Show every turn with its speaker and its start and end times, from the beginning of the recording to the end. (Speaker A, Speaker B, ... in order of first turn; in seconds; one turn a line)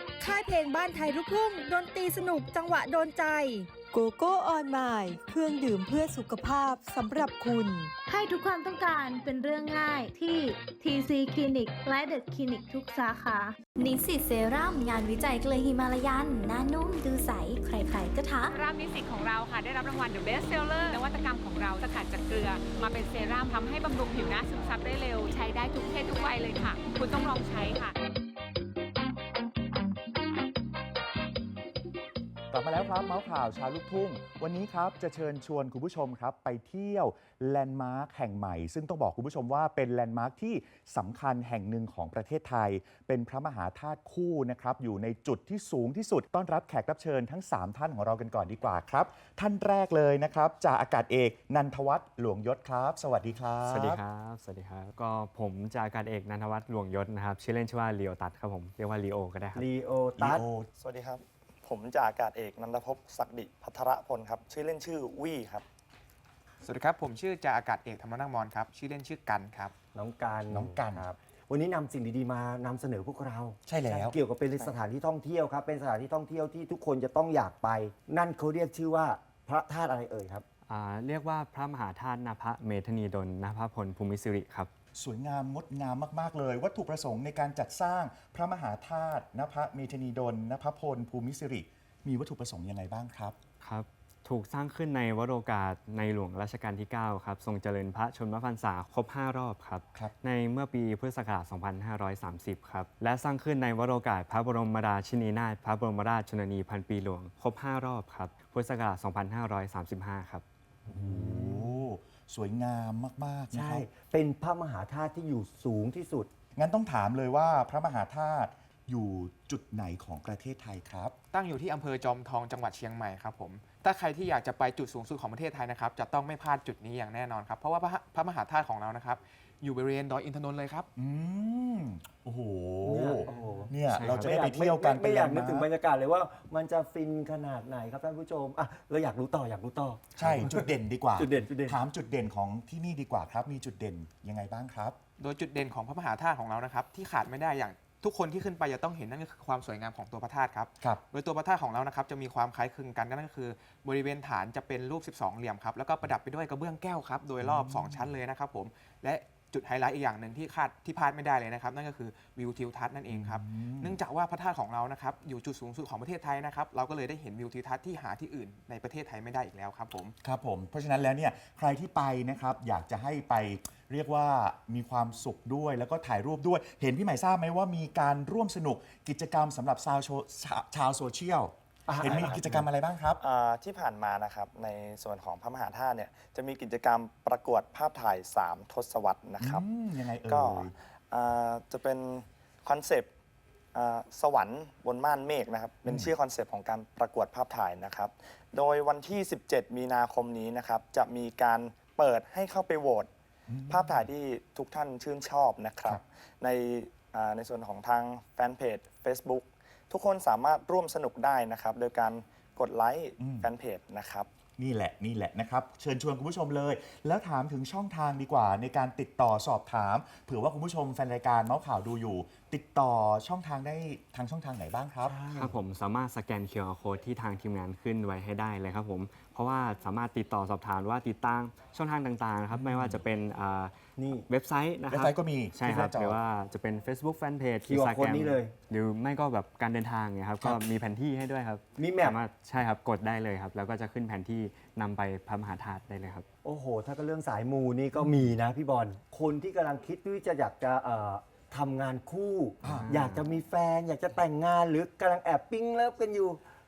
Speaker A: 0.2-3.7
Speaker B: 3.9-7.9
Speaker C: 8.1-13.6
Speaker D: 13.7-18.6
Speaker E: 18.6-27.9
Speaker F: 32.5-54.0
Speaker G: 53.6-59.7
Speaker H: 59.5-60.4
Speaker F: 60.1-60.7
Speaker I: 60.8-65.6
Speaker J: 66.6-69.7
Speaker H: 69.9-80.4
Speaker F: 70.5-71.1
Speaker F: 73.7-74.7
Speaker G: 80.7-84.7
Speaker F: 84.9-93.4
Speaker G: 93.6-110.4
Speaker F: 110.9-113.9
Speaker H: 110.9-111.7
Speaker H: 113.5-116.3
Speaker F: 116.5-121.1
Speaker J: 121.3-130.9
Speaker F: 130.9-135.7
Speaker H: 132.8-140.6
Speaker J: 133.2-133.7
Speaker G: 133.9-134.3
Speaker F: 140.2-145.0
Speaker H: 141.2-141.8
Speaker J: 145.2-170.1
Speaker F: 157.4-158.1
Speaker F: 163.1-164.0
Speaker F: 170.2-183.2
Speaker H: 181.8-182.6
Speaker I: 183.2-189.6
Speaker F: 189.4-190.7
Speaker I: 190.2-193.1
Speaker I: 193.7-203.1
Speaker F: 195.8-196.1
Speaker F: 203.5-204.1
Speaker I: 203.7-214.3
Speaker F: 213.2-213.5
Speaker F: 214.6-225.2
Speaker H: 225.1-225.5
Speaker G: 225.3-246.2
Speaker F: 232.5-233.0
Speaker H: 234.0-234.3
Speaker F: 234.9-236.2
Speaker H: 237.7-238.5
Speaker H: 241.8-242.2
Speaker H: 246.4-256.4
Speaker F: 252.6-253.0
Speaker G: 252.7-253.4